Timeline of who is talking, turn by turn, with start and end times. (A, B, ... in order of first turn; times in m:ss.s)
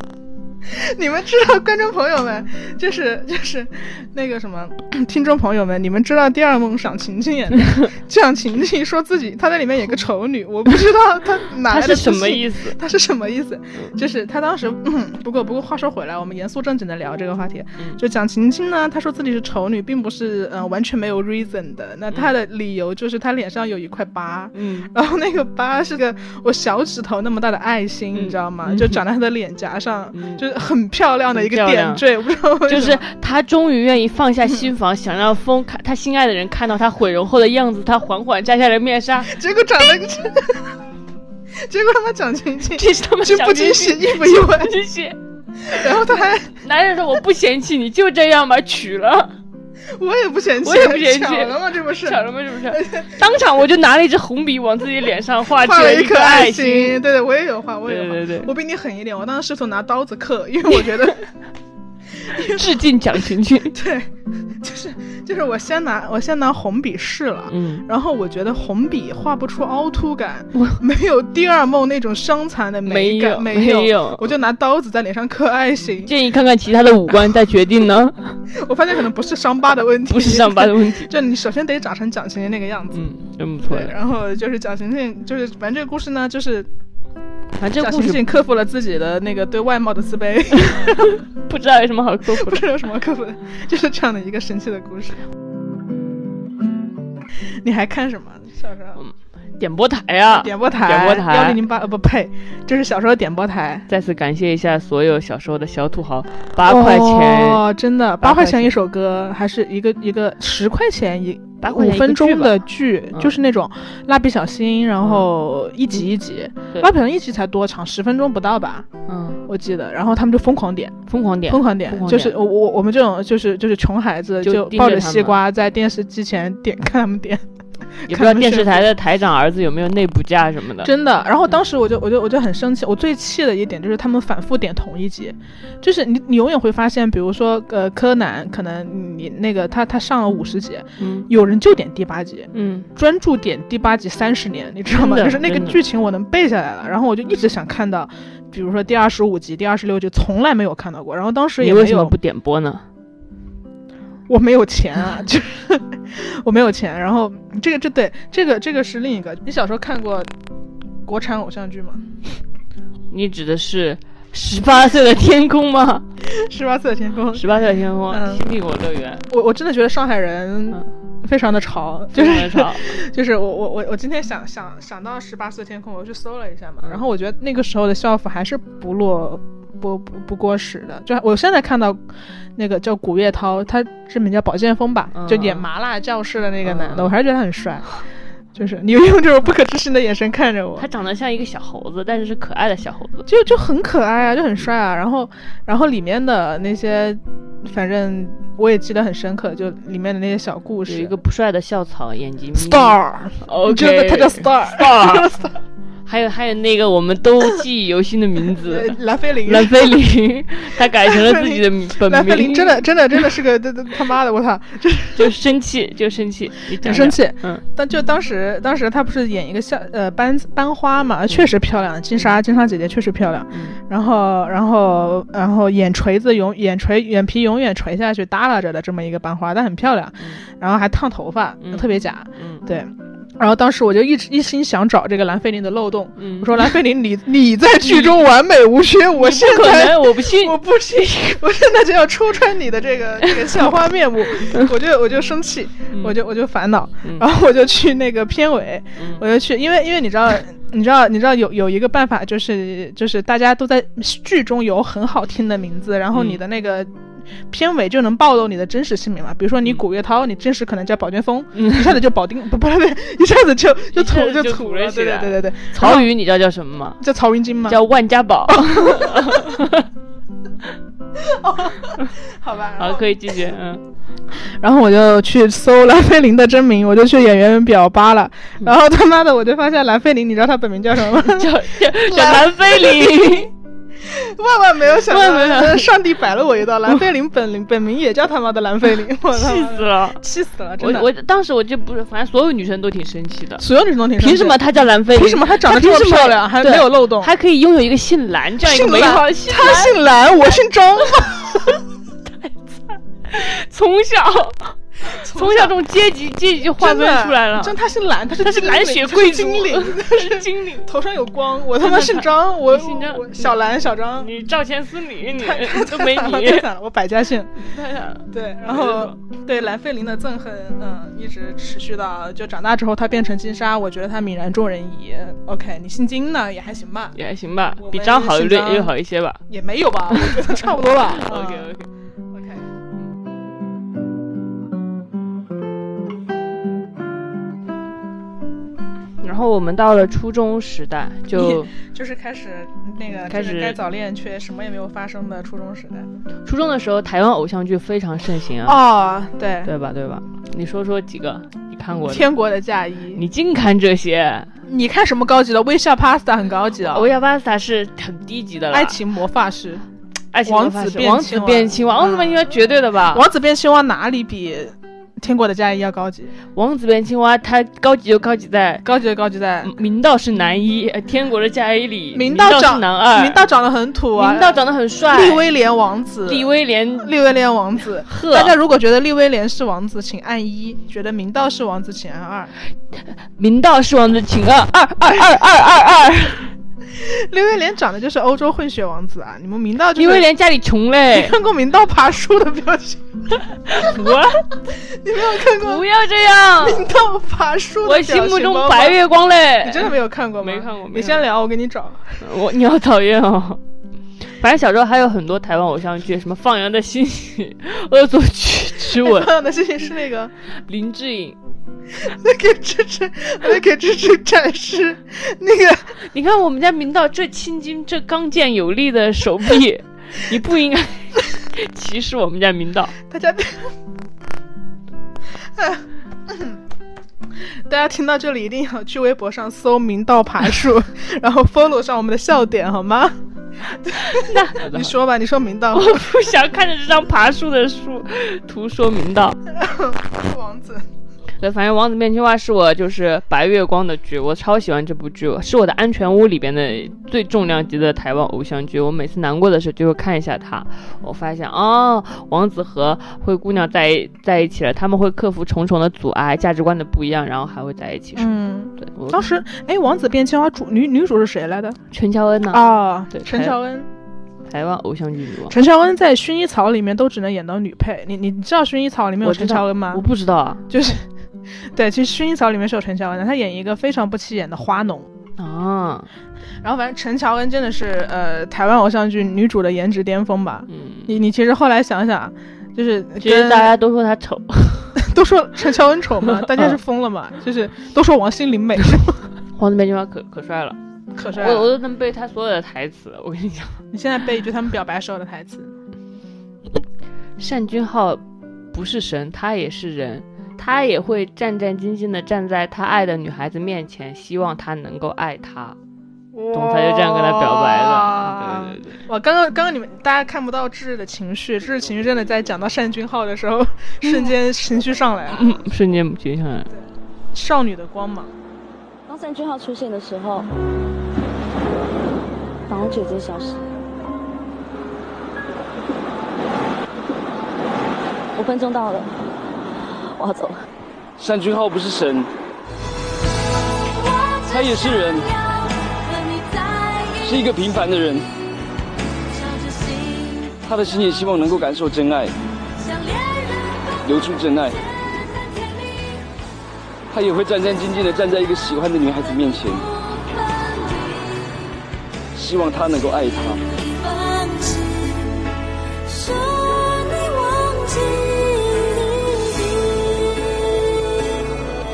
0:00.7-0:33.0 A
0:11.7-0:12.8 B
0:24.5-0:24.9 B
0:28.1-0:29.0 B
0:30.1-0:30.4 B
0:31.3-0:32.0 B
0:32.7-0:39.4 B
0:39.2-0:40.8 A
0:41.6-0:44.7 A
0:42.7-0:45.2 B
0:45.6-0:46.6 A
0:46.6-0:49.3 B
0:49.9-0:53.2 A
0:50.6-0:57.0 B
0:55.5-1:01.2 A
0:57.9-0:58.5 B
1:02.2-1:02.9 A
1:02.4-1:03.8 B
1:03.7-1:16.1 A
1:07.5-1:07.9 B
1:12.9-1:14.3 B
1:16.1-1:18.4 B
1:18.5-1:23.1 A
1:20.1-1:21.1 B
1:22.9-1:23.9 B
1:23.6-1:26.7 A
1:27.6-1:28.2 B
1:27.8-1:31.2 A
1:30.6-1:32.7 B
1:32.3-1:35.2 A
1:37.6-1:39.0 A
1:39.0-1:41.6 B
1:40.3-1:43.9 A
1:43.9-1:47.6 B
1:46.6-1:58.9 A
1:48.2-1:48.7 B
1:51.6-1:52.6 B
1:59.1-1:59.4 B
1:59.5-2:07.4 A
2:01.1-2:02.4 B
2:04.4-2:05.4 B
2:08.0-2:08.9 A
2:08.1-2:10.9 B
2:10.8-2:32.2 A
2:21.0-2:21.3 B
2:22.5-2:22.9 B
2:24.9-2:25.8 B
2:31.6-2:32.8 B
2:34.3-2:40.3 A
2:41.0-2:42.0 A
2:43.1-2:46.1 B
2:46.3-2:47.5 A
2:47.3-2:49.2 B
2:48.1-2:48.4 A
2:49.3-3:02.0 A
2:52.1-2:53.0 B
3:02.6-3:07.9 A
3:05.1-3:05.7 B
3:06.6-3:07.1 B
3:08.5-3:10.9 A
3:10.8-3:13.3 B
3:13.3-3:21.1 A
3:20.9-3:25.3 B
3:22.6-3:25.6 A
3:26.1-3:32.8 B
3:28.5-3:30.0 A
3:31.0-3:35.3 A
3:35.2-3:37.6 B
3:36.8-4:16.9 A
3:43.5-3:43.8 B
3:51.6-3:52.6 B
3:56.2-3:56.7 B
3:57.8-3:58.1 B
3:59.2-4:01.1 B
4:05.9-4:06.2 B
4:09.0-4:09.2 B
4:16.1-4:16.4 B
4:17.5-4:26.1 A
4:21.6-4:22.0 B
4:23.9-4:27.0 B
4:27.0-4:27.8 A
4:27.7-4:29.9 B
4:28.5-4:29.6 A
4:31.2-4:33.1 A
4:32.8-4:33.8 B
4:34.4-4:43.4 A
4:41.2-4:43.5 B
4:44.0-4:51.1 A
4:45.1-4:45.9 B
4:49.3-4:50.2 B
4:50.8-4:53.6 B
4:53.6-4:54.6 A
4:54.2-5:00.0 B
4:55.1-4:57.3 A
4:58.6-5:01.8 A
5:02.4-5:07.8 B
5:05.0-5:05.8 A
5:06.8-5:14.3 A
5:08.4-5:10.9 B
5:11.8-5:13.6 B
5:14.2-5:16.7 B
5:15.3-5:17.6 A
5:17.6-5:19.1 B
5:18.3-5:27.2 A
5:27.2-5:29.4 B
5:27.8-5:28.9 A
5:29.5-5:31.7 A
5:30.1-5:31.9 B
5:32.3-5:32.6 A
5:39.2-5:41.7 B
5:41.3-5:46.1 A
5:43.3-5:43.8 B
5:46.4-5:48.8 B
5:48.6-5:49.7 A
5:49.6-5:52.3 B
5:52.0-5:53.2 A
5:53.1-5:54.5 B
5:54.6-5:57.1 A
5:56.8-5:59.0 B
5:58.7-5:59.9 A
6:00.3-6:03.2 B
6:00.4-6:02.6 A
6:03.1-6:06.3 A
6:06.5-6:08.8 B
6:08.8-6:09.7 A
6:09.6-6:13.4 B
6:12.1-6:22.5 A
6:14.1-6:15.5 B
6:16.2-6:17.1 B
6:18.1-6:18.6 B
6:23.4-6:26.5 B
6:25.0-6:25.3 A
6:26.9-6:30.3 A
6:30.0-6:31.4 B
6:31.1-6:34.0 A
6:33.7-6:34.5 B
6:34.7-6:35.9 A
6:35.5-6:36.9 B
6:36.6-6:39.0 A
6:37.8-6:41.2 B
6:39.6-6:42.2 A
6:42.2-6:43.6 B
6:44.2-6:49.3 B
6:48.8-6:50.3 A
6:50.6-6:51.4 B
6:51.9-6:56.0 A
6:56.0-7:02.9 B
7:03.0-7:03.7 A
7:05.6-7:06.6 A
7:07.5-7:16.2 A
7:13.9-7:14.9 B
7:15.7-7:19.4 B
7:19.5-7:20.9 A
7:21.4-7:39.2 B
7:38.2-7:41.8 A
7:41.9-7:43.6 B
7:42.5-7:43.9 A
7:44.5-7:45.6 B
7:45.5-7:50.0 A
7:49.2-7:50.6 B
7:50.7-7:55.1 A
7:55.4-7:56.1 B
7:56.6-8:03.7 A
8:00.7-8:01.2 B
8:03.2-8:05.0 B
8:05.0-8:09.2 A
8:06.5-8:06.7 B
8:09.6-8:13.8 B
8:11.1-8:11.7 A
8:13.9-8:15.7 A
8:17.4-8:25.8 B
8:26.3-8:35.6 A
8:26.5-8:29.0 B
8:34.0-8:34.3 B
8:35.3-8:36.7 B
8:36.7-8:38.3 A
8:39.1-8:40.5 C
8:42.7-8:43.6 C
8:48.4-8:49.1 C
8:50.2-8:50.6 C
8:51.2-8:52.3 D
8:53.9-8:57.6 E
8:54.5-8:55.2 D
8:57.2-8:58.2 D
8:59.3-9:00.7 E
9:00.6-9:02.3 D
9:02.8-9:06.3 E
9:04.0-9:04.8 D
9:07.1-9:09.9 D
9:10.0-9:11.8 E
9:12.4-9:13.6 D
9:13.6-9:15.5 E
9:16.0-9:21.3 E